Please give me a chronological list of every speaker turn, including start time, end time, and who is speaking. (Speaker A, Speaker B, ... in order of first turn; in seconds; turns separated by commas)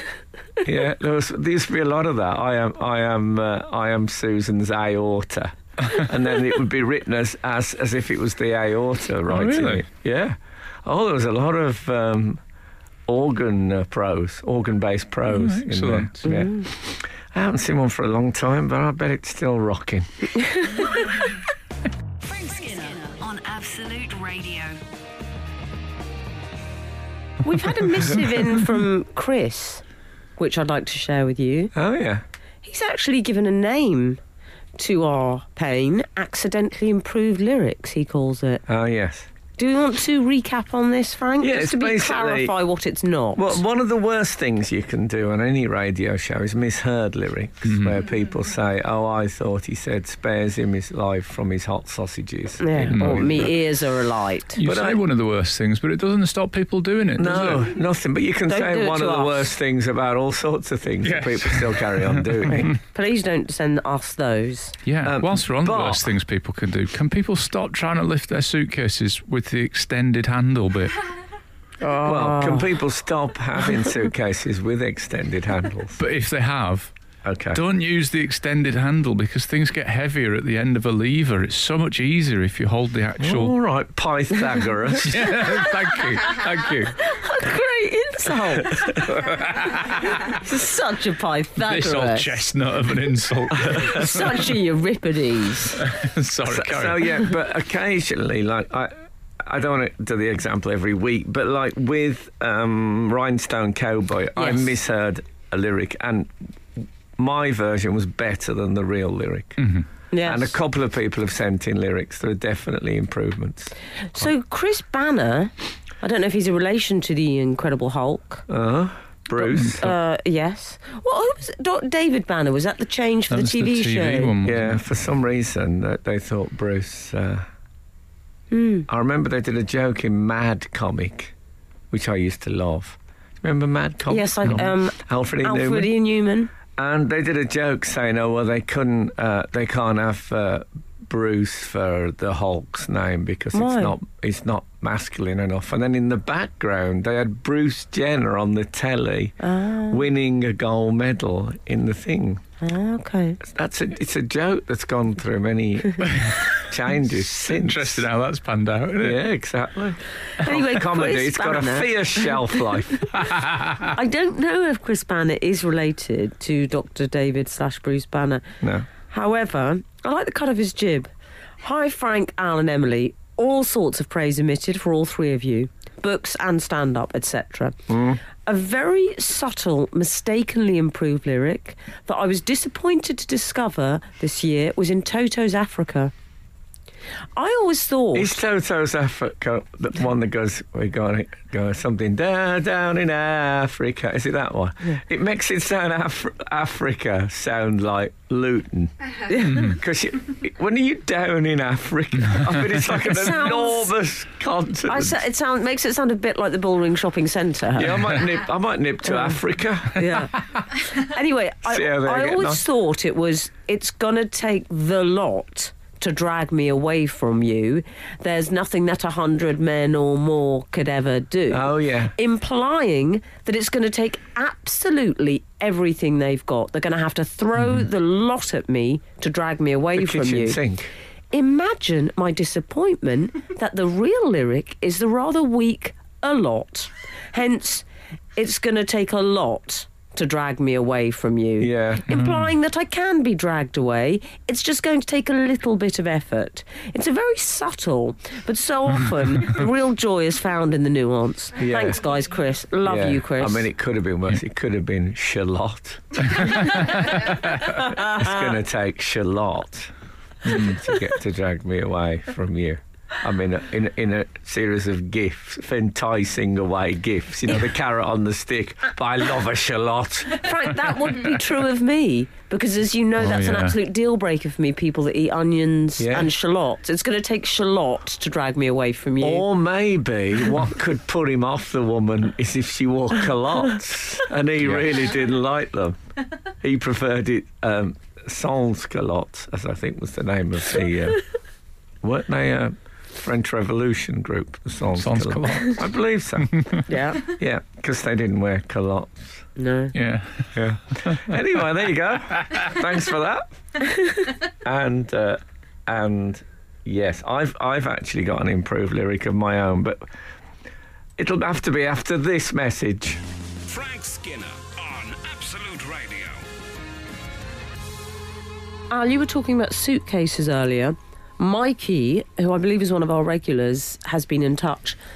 Speaker A: 0.6-12.4, Speaker B: 9.3-9.8, Speaker A: 13.1-20.3, Speaker B: 15.3-16.3, Speaker C: 16.3-16.6, Speaker C: 20.6-20.9, Speaker D: 22.2-24.8, Speaker C: 27.4-29.8, Speaker C: 30.4-31.7, Speaker A: 31.7-32.2, Speaker C: 32.6-34.2, Speaker C: 34.8-38.6, Speaker A: 38.7-39.3, Speaker C: 39.6-43.6, Speaker A: 41.4-42.5, Speaker A: 43.4-53.6, Speaker B: 47.7-48.0, Speaker C: 52.6-54.6, Speaker B: 52.9-53.3, Speaker B: 54.6-57.7, Speaker A: 54.6-55.0, Speaker A: 57.2-62.7, Speaker C: 58.5-59.5, Speaker B: 61.0-62.7, Speaker C: 62.7-64.8, Speaker B: 64.9-71.0, Speaker A: 65.0-66.2, Speaker C: 71.8-72.7, Speaker A: 72.0-76.0, Speaker B: 76.0-76.9, Speaker A: 77.2-77.6, Speaker B: 77.5-83.5, Speaker A: 83.2-85.5, Speaker B: 85.0-87.0, Speaker C: 87.0-89.0, Speaker A: 88.8-89.1, Speaker B: 89.1-90.2, Speaker C: 90.2-92.4, Speaker B: 91.6-94.4, Speaker C: 93.7-95.8, Speaker B: 95.8-97.2, Speaker A: 96.4-109.6, Speaker C: 104.4-104.7, Speaker B: 109.6-109.8, Speaker C: 110.1-110.5, Speaker A: 110.2-113.7, Speaker C: 114.1-118.5, Speaker A: 118.5-120.0, Speaker C: 119.4-124.3, Speaker B: 123.3-124.8, Speaker A: 124.4-127.5, Speaker C: 128.5-128.9, Speaker A: 128.9-131.3, Speaker A: 131.9-135.9, Speaker C: 134.1-136.5, Speaker A: 136.7-149.4, Speaker C: 143.5-144.0, Speaker C: 149.4-150.0, Speaker A: 149.9-152.4, Speaker C: 152.6-153.4, Speaker A: 153.4-158.1, Speaker B: 156.0-156.5, Speaker B: 157.3-159.2, Speaker A: 159.0-163.2, Speaker C: 160.4-162.3, Speaker B: 163.3-163.8, Speaker C: 163.9-168.4, Speaker A: 168.6-168.9, Speaker C: 169.1-171.1, Speaker C: 171.6-177.8, Speaker A: 177.9-178.2, Speaker C: 178.4-186.1, Speaker C: 187.4-188.3, Speaker A: 188.1-198.9, Speaker C: 199.3-199.8, Speaker A: 199.4-205.2, Speaker B: 199.5-199.8, Speaker C: 202.9-203.9, Speaker C: 204.9-208.2, Speaker A: 207.8-210.3, Speaker C: 209.9-230.6, Speaker A: 211.7-212.7, Speaker A: 221.5-222.2, Speaker A: 229.9-230.9, Speaker C: 231.3-253.7, Speaker A: 241.6-242.2, Speaker A: 251.6-252.0, Speaker A: 252.8-256.9, Speaker C: 257.7-258.5, Speaker A: 257.7-259.9, Speaker A: 260.4-270.6, Speaker C: 270.3-279.4, Speaker B: 273.2-273.8, Speaker A: 276.0-276.3, Speaker A: 279.2-286.0, Speaker A: 286.6-291.2, Speaker A: 292.0-296.6, Speaker B: 295.0-295.9, Speaker B: 296.4-296.8, Speaker C: 296.9-297.3, Speaker A: 297.2-299.5, Speaker C: 299.6-299.9, Speaker B: 299.9-301.4, Speaker A: 300.6-303.9, Speaker A: 304.4-310.1, Speaker A: 311.2-313.2, Speaker E: 313.6-316.4, Speaker C: 318.9-325.0